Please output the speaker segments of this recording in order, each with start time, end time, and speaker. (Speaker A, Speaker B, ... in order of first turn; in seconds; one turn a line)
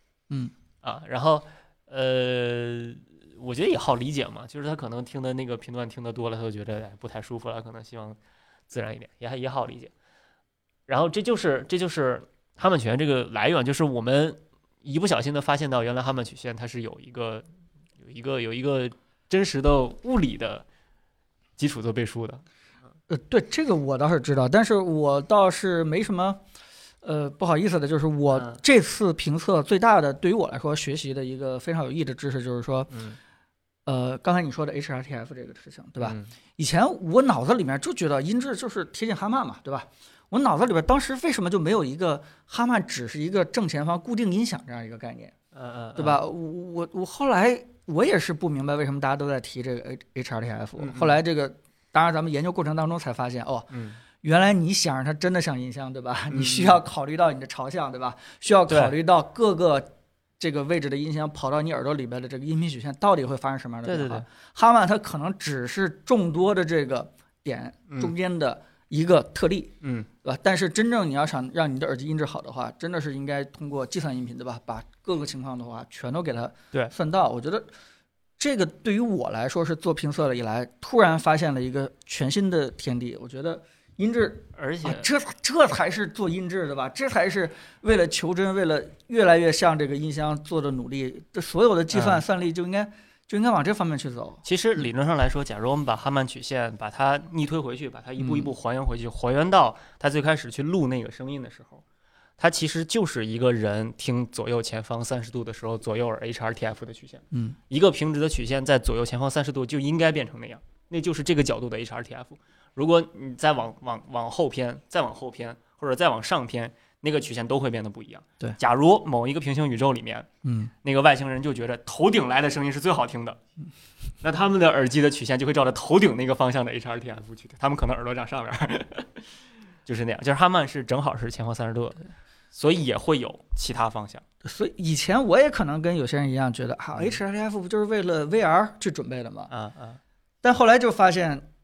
Speaker A: 0.8-8.2
Speaker A: 8.7-9.9
Speaker A: 10.9-17.5
Speaker A: 18.0-20.6
Speaker A: 21.6-22.4
Speaker B: 23.1-26.4
Speaker B: 27.0-32.9
Speaker A: 28.3-28.6
Speaker A: 32.9-33.2
Speaker B: 33.9-45.3
Speaker A: 36.0-36.3
Speaker A: 45.5-46.2
Speaker B: 46.0-53.7
Speaker A: 50.8-51.2
Speaker A: 53.7-54.0
Speaker B: 54.2-59.9
Speaker A: 56.3-56.8
Speaker A: 58.7-58.9
Speaker B: 60.4-69.7
Speaker A: 63.9-64.2
Speaker B: 70.2-77.7
Speaker B: 78.4-94.4
Speaker A: 84.6-85.1
Speaker A: 91.9-92.2
Speaker A: 94.5-101.8
Speaker B: 98.2-98.5
Speaker A: 102.4-120.3
Speaker B: 107.3-107.6
Speaker B: 120.4-120.7
Speaker A: 120.8-123.4
Speaker A: 124.2-129.3
Speaker A: 129.9-134.2
Speaker B: 134.4-139.5
Speaker A: 139.5-140.0
Speaker B: 140.4-141.5